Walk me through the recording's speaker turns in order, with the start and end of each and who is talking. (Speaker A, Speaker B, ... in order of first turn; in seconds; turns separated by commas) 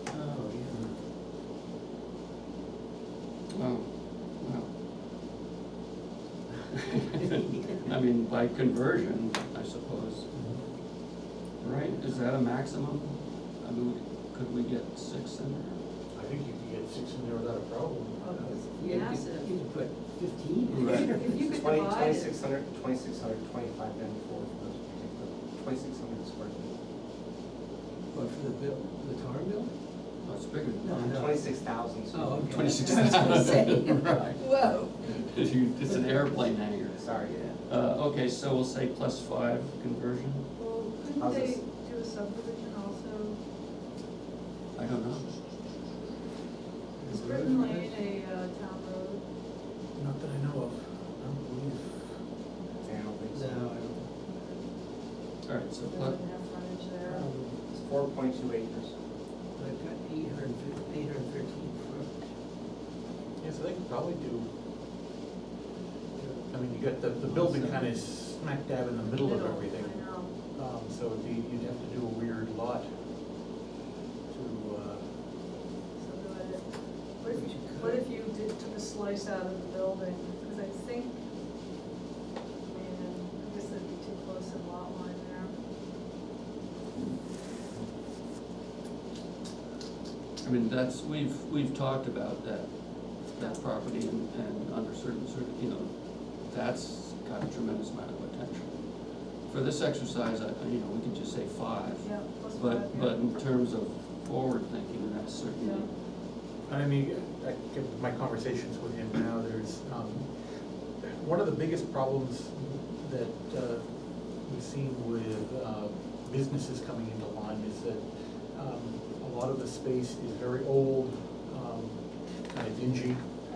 Speaker A: 0.1-0.9, Speaker B: 3.5-4.7, Speaker A: 7.0-8.0, Speaker B: 7.8-10.6, Speaker B: 11.6-15.8, Speaker C: 16.1-18.6, Speaker D: 18.2-19.6, Speaker A: 18.4-21.4, Speaker B: 20.7-21.1, Speaker D: 21.1-22.4, Speaker E: 21.3-26.8, Speaker A: 28.1-29.7, Speaker B: 30.2-31.2, Speaker A: 30.8-34.7, Speaker E: 31.1-32.7, Speaker B: 32.5-34.3, Speaker D: 34.4-35.2, Speaker B: 35.0-40.5, Speaker E: 36.9-37.6, Speaker D: 40.6-43.4, Speaker E: 41.2-41.7, Speaker B: 44.7-45.4, Speaker A: 47.0-48.0, Speaker D: 47.1-49.3, Speaker C: 50.0-52.2, Speaker D: 52.6-53.0, Speaker E: 52.8-53.6, Speaker A: 53.3-54.3, Speaker D: 54.3-54.9, Speaker B: 55.4-56.2, Speaker D: 55.8-57.3, Speaker A: 57.0-57.6, Speaker E: 57.6-59.0, Speaker A: 59.6-62.4, Speaker C: 63.4-64.5, Speaker A: 66.2-68.0, Speaker C: 66.5-73.0, Speaker D: 69.2-70.3, Speaker C: 74.3-75.2, Speaker D: 76.0-81.3, Speaker A: 77.3-78.1, Speaker D: 82.7-85.5, Speaker B: 90.4-105.9, Speaker D: 93.3-93.6, Speaker D: 102.0-103.3, Speaker D: 105.6-105.9, Speaker C: 106.7-123.3